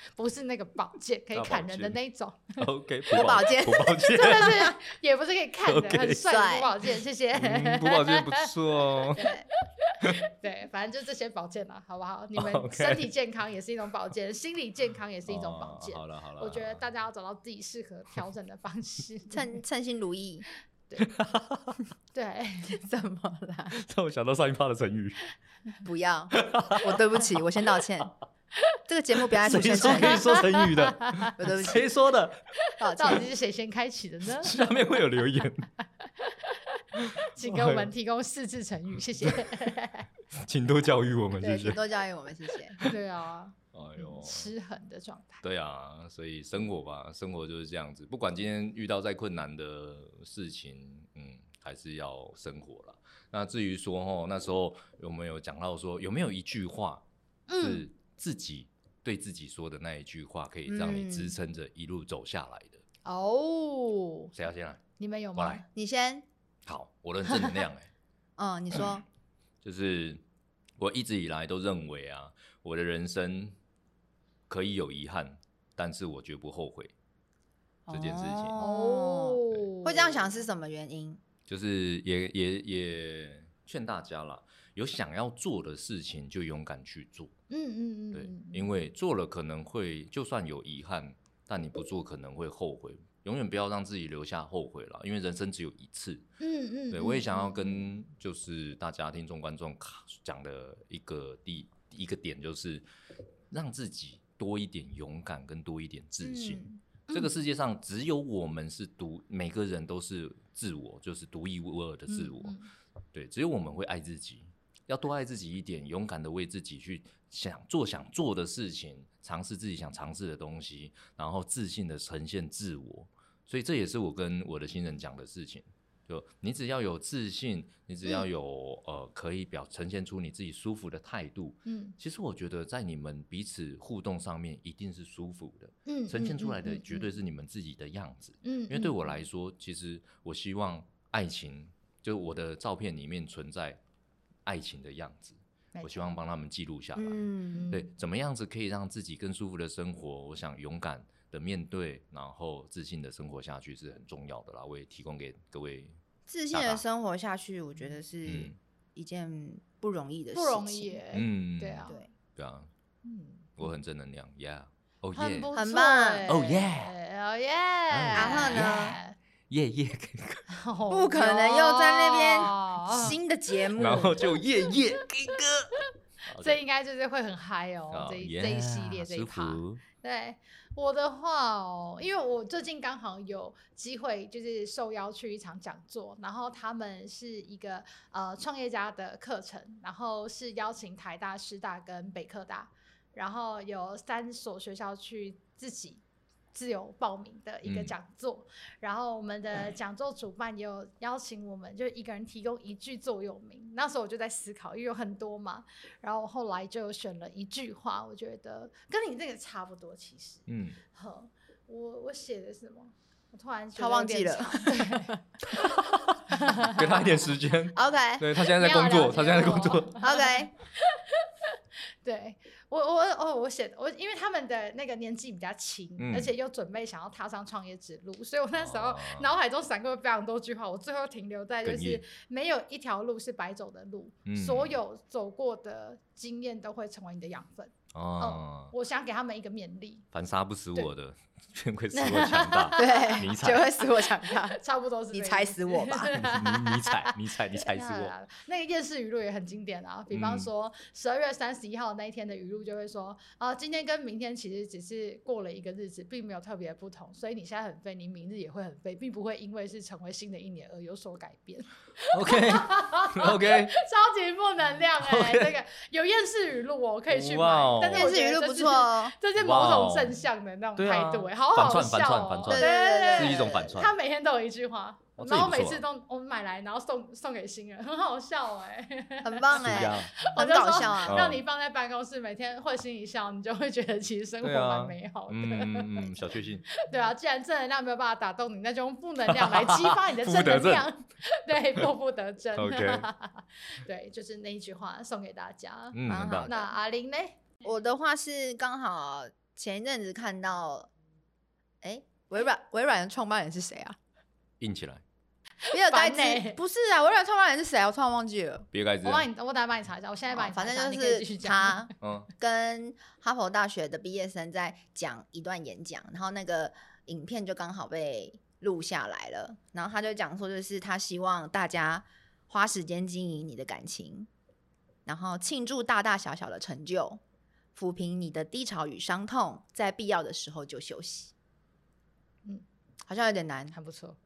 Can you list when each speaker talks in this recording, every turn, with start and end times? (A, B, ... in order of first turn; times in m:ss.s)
0:00.2-0:02.6 A
0:01.3-0:02.0 B
0:02.6-0:04.7 B
0:03.1-0:04.5 C
0:04.0-0:08.5 A
0:05.6-0:06.2 B
0:06.2-0:06.7 C
0:07.4-0:09.3 B
0:09.1-0:09.5 C
0:09.1-0:19.5 A
0:12.3-0:13.1 B
0:15.3-0:16.8 B
0:19.3-0:20.4 C
0:21.0-0:21.8 B
0:22.1-0:22.8 A
0:22.7-0:23.8 C
0:23.7-0:25.2 B
0:25.8-0:28.1 C
0:26.4-0:27.0 B
0:28.9-0:30.3 C
0:29.4-0:32.4 B
0:30.0-0:31.3 A
0:31.4-0:31.9 C
0:32.8-0:33.2 C
0:32.9-0:34.6 A
0:34.4-0:35.7 B
0:36.0-0:40.1 A
0:37.0-0:37.9 B
0:40.4-0:41.8 B
0:41.4-0:42.8 C
0:42.8-0:45.4 A
0:43.7-0:44.5 B
0:45.4-0:57.0 B
0:57.5-0:57.8 A
0:57.6-1:02.8 B
1:00.7-1:01.3 C
1:03.0-1:04.3 A
1:04.3-1:04.8 B
1:05.0-1:05.6 A
1:05.4-1:05.6 B
1:05.7-1:06.2 C
1:06.6-1:07.9 B
1:08.4-1:09.0 C
1:09.6-1:10.2 B
1:10.8-1:13.6 B
1:14.5-1:16.9 B
1:17.9-1:21.2 C
1:17.9-1:18.6 B
1:18.6-1:20.2 A
1:21.5-1:27.3 B
1:27.5-1:28.7 A
1:28.1-1:36.2 B
1:36.4-1:37.8 A
1:36.9-1:42.8 B
1:43.5-1:52.5 B
1:46.2-1:46.8 C
1:52.1-1:52.7 A
1:53.1-2:23.8 B
2:11.7-2:11.9 A
2:15.9-2:17.1 A
2:18.4-2:19.2 A
2:24.4-2:36.0 B
2:25.7-2:26.1 A
2:27.0-2:27.7 C
2:27.5-2:27.9 A
2:36.3-2:41.0 C
2:36.5-2:36.8 B
2:38.2-2:38.6 B
2:40.3-2:42.0 A
2:41.1-2:42.7 B
2:43.0-2:43.5 A
2:43.6-2:45.5 B
2:45.1-2:49.1 A
2:45.5-2:46.3 C
2:46.3-2:46.9 B
2:47.9-2:48.9 B
2:48.1-2:49.0 C
2:49.5-2:50.4 B
2:50.5-2:53.2 A
2:50.9-2:54.3 C
2:53.7-2:55.8 B
2:56.3-2:56.6 B
2:56.3-3:16.0 A
2:57.9-2:59.8 B
3:16.5-3:35.7 A
3:17.6-3:17.9 B
3:30.5-3:30.8 B
3:33.8-3:35.2 C
3:35.5-3:40.0 B
3:36.3-3:37.2 A
3:37.7-3:38.3 C
3:38.4-3:41.3 A
3:40.0-3:40.5 C
3:42.0-4:00.0 A
3:46.0-3:46.3 B
3:48.5-3:49.3 B
3:51.6-3:52.0 B
3:54.3-3:54.7 B
3:57.9-3:58.7 B
4:00.1-4:03.7 B
4:01.9-4:03.2 A
4:02.8-4:04.6 C
4:04.2-4:07.1 A
4:05.1-4:06.1 C
4:06.1-4:08.1 B
4:07.6-4:57.4 A
4:10.1-4:10.5 B
4:22.1-4:23.7 B
4:25.0-4:25.6 B
4:27.1-4:28.1 B
4:27.9-4:29.1 C
4:29.4-4:30.2 B
4:30.8-4:33.9 B
4:32.5-4:33.8 C
4:35.2-4:35.8 B
4:39.2-4:41.3 C
4:39.6-4:40.1 B
4:41.0-4:41.4 B
4:44.4-4:46.7 B
4:49.3-4:50.9 B
4:52.6-4:53.1 B
4:55.9-4:56.5 B
4:56.0-4:56.7 C
4:57.6-5:00.9 C
5:01.8-5:04.0 C
5:04.6-5:05.0 B
5:05.6-5:06.6 A
5:05.7-5:08.6 C
5:08.7-5:09.3 B
5:09.0-5:11.9 A
5:10.3-5:24.3 C
5:12.0-5:12.3 B
5:25.0-5:27.2 C
5:27.7-5:31.3 C
5:33.1-5:33.8 C
5:33.7-5:34.2 A